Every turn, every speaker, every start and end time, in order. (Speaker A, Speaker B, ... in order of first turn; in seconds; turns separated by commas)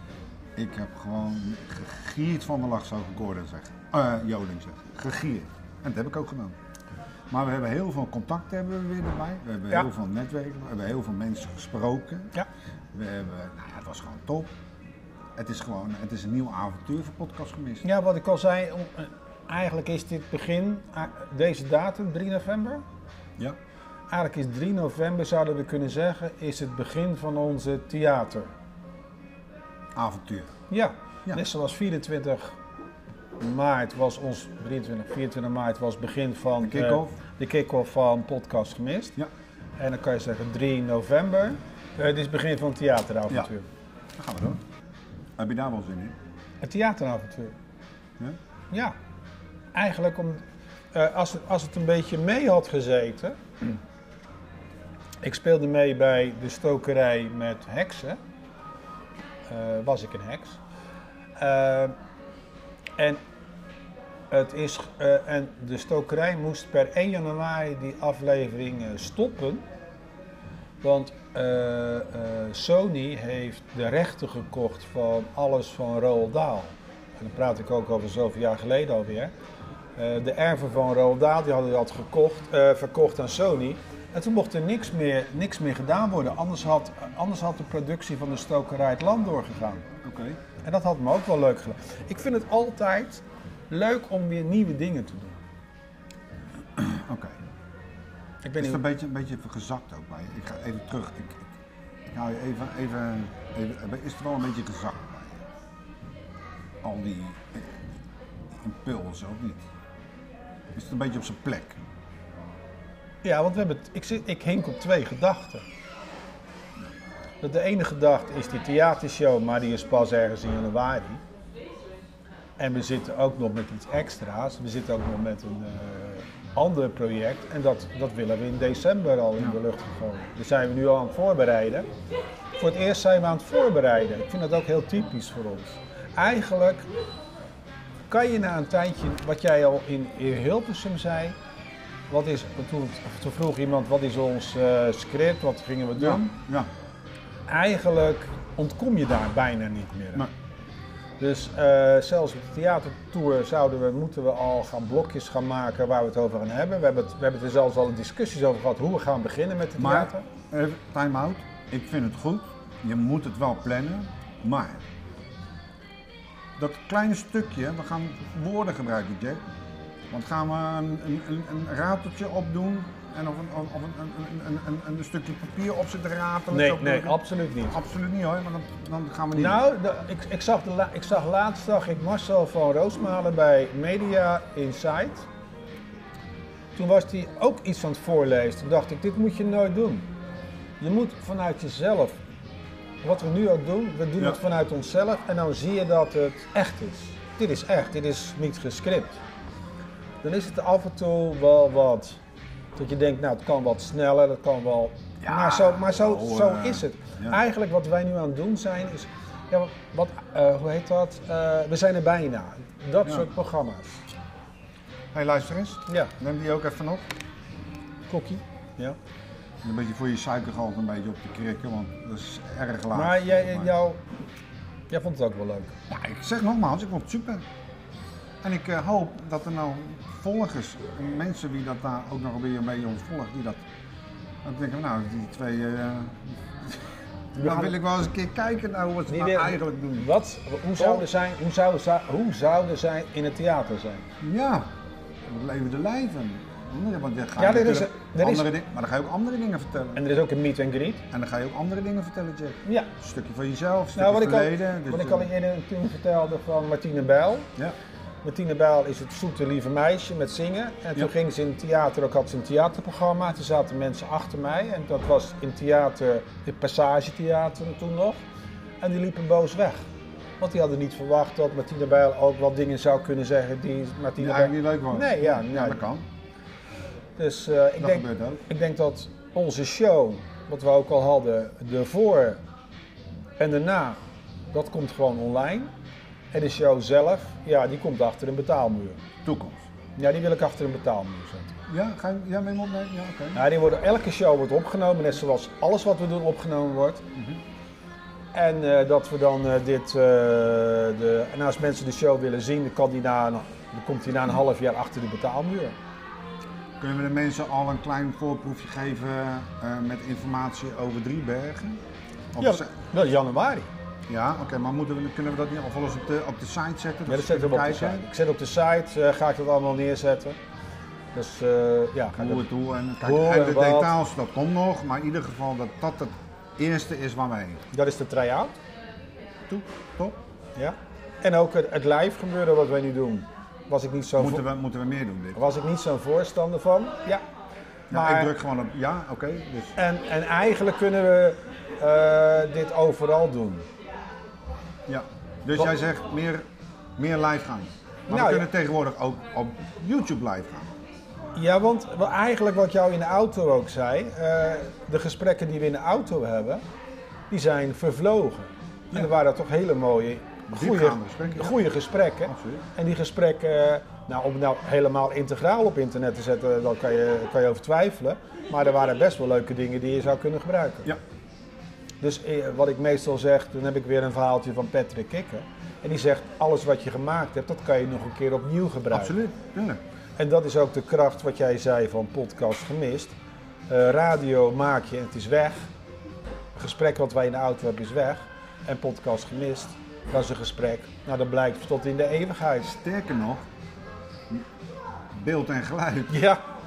Speaker A: 0.6-6.5, Speaker A: 7.3-12.3, Speaker A: 12.9-14.5, Speaker A: 15.3-17.8, Speaker B: 17.8-22.8, Speaker B: 24.1-28.5, Speaker A: 29.9-30.5, Speaker B: 30.7-32.5, Speaker B: 33.4-39.2, Speaker A: 36.6-37.2, Speaker B: 39.8-43.7, Speaker A: 44.2-44.6, Speaker A: 45.4-46.2, Speaker B: 46.6-47.5, Speaker B: 49.7-50.4, Speaker B: 50.9-53.4, Speaker B: 55.2-58.2, Speaker B: 59.5-60.6, Speaker B: 61.4-61.9, Speaker B: 64.3-69.6, Speaker B: 70.8-79.3, Speaker B: 80.0-89.9, Speaker A: 90.0-90.4, Speaker B: 90.6-95.4, Speaker A: 96.8-97.4, Speaker B: 98.4-98.8, Speaker A: 98.6-101.5, Speaker A: 102.1-105.4, Speaker A: 106.8-107.8, Speaker A: 108.5-109.6, Speaker A: 110.7-111.8, Speaker B: 113.2-115.6, Speaker B: 117.4-121.2, Speaker B: 122.6-131.9, Speaker B: 132.6-136.9, Speaker B: 138.1-141.3, Speaker B: 142.1-146.3, Speaker A: 146.0-146.7, Speaker B: 147.5-150.3, Speaker B: 151.2-160.2, Speaker A: 159.8-164.8, Speaker A: 166.6-169.4, Speaker A: 170.1-177.2, Speaker B: 176.5-177.8, Speaker A: 177.7-179.6, Speaker B: 179.3-185.3, Speaker B: 186.7-190.1, Speaker B: 190.8-192.2, Speaker B: 193.0-199.2, Speaker B: 200.2-202.2, Speaker B: 202.8-214.1, Speaker A: 205.2-207.4, Speaker A: 213.0-213.3, Speaker A: 215.1-217.1, Speaker B: 215.9-216.1, Speaker B: 218.1-219.0, Speaker A: 219.6-223.7, Speaker B: 222.9-224.0, Speaker B: 224.9-225.7, Speaker A: 225.9-227.4, Speaker A: 228.4-233.6, Speaker A: 234.4-236.8, Speaker B: 237.3-237.7, Speaker A: 237.3-240.1, Speaker B: 239.1-244.1, Speaker A: 240.8-241.1, Speaker A: 244.2-244.7, Speaker A: 245.2-250.0, Speaker B: 247.4-248.5, Speaker B: 249.9-251.0, Speaker A: 251.1-255.3, Speaker B: 252.6-252.9, Speaker B: 253.9-257.5, Speaker B: 258.2-268.2, Speaker B: 268.8-269.8, Speaker B: 270.4-275.8, Speaker A: 274.2-276.0, Speaker B: 277.2-282.4, Speaker A: 277.8-278.4, Speaker B: 283.4-284.0, Speaker B: 284.5-285.7, Speaker B: 286.3-289.0, Speaker A: 289.2-289.7, Speaker B: 289.9-291.5, Speaker A: 291.7-293.4, Speaker B: 293.3-297.0, Speaker B: 298.3-305.7, Speaker A: 306.8-311.8, Speaker A: 312.3-312.7, Speaker B: 312.4-313.7, Speaker A: 314.1-318.1, Speaker B: 317.1-320.4, Speaker B: 321.1-322.4, Speaker A: 322.1-327.6, Speaker B: 323.0-323.9, Speaker B: 327.7-328.5, Speaker A: 329.5-330.2, Speaker B: 330.6-334.4, Speaker A: 334.2-335.4, Speaker B: 335.3-337.2, Speaker A: 337.9-339.7, Speaker B: 337.9-338.3, Speaker B: 339.7-343.7, Speaker A: 344.9-350.7, Speaker B: 348.1-348.5, Speaker B: 351.3-356.6, Speaker B: 357.3-370.9, Speaker A: 360.5-361.7, Speaker A: 362.2-362.6, Speaker B: 372.0-379.2, Speaker A: 378.9-379.8, Speaker B: 380.2-383.1, Speaker B: 383.7-385.7, Speaker B: 386.6-392.8, Speaker A: 392.8-393.5, Speaker A: 395.1-396.2, Speaker B: 396.1-396.4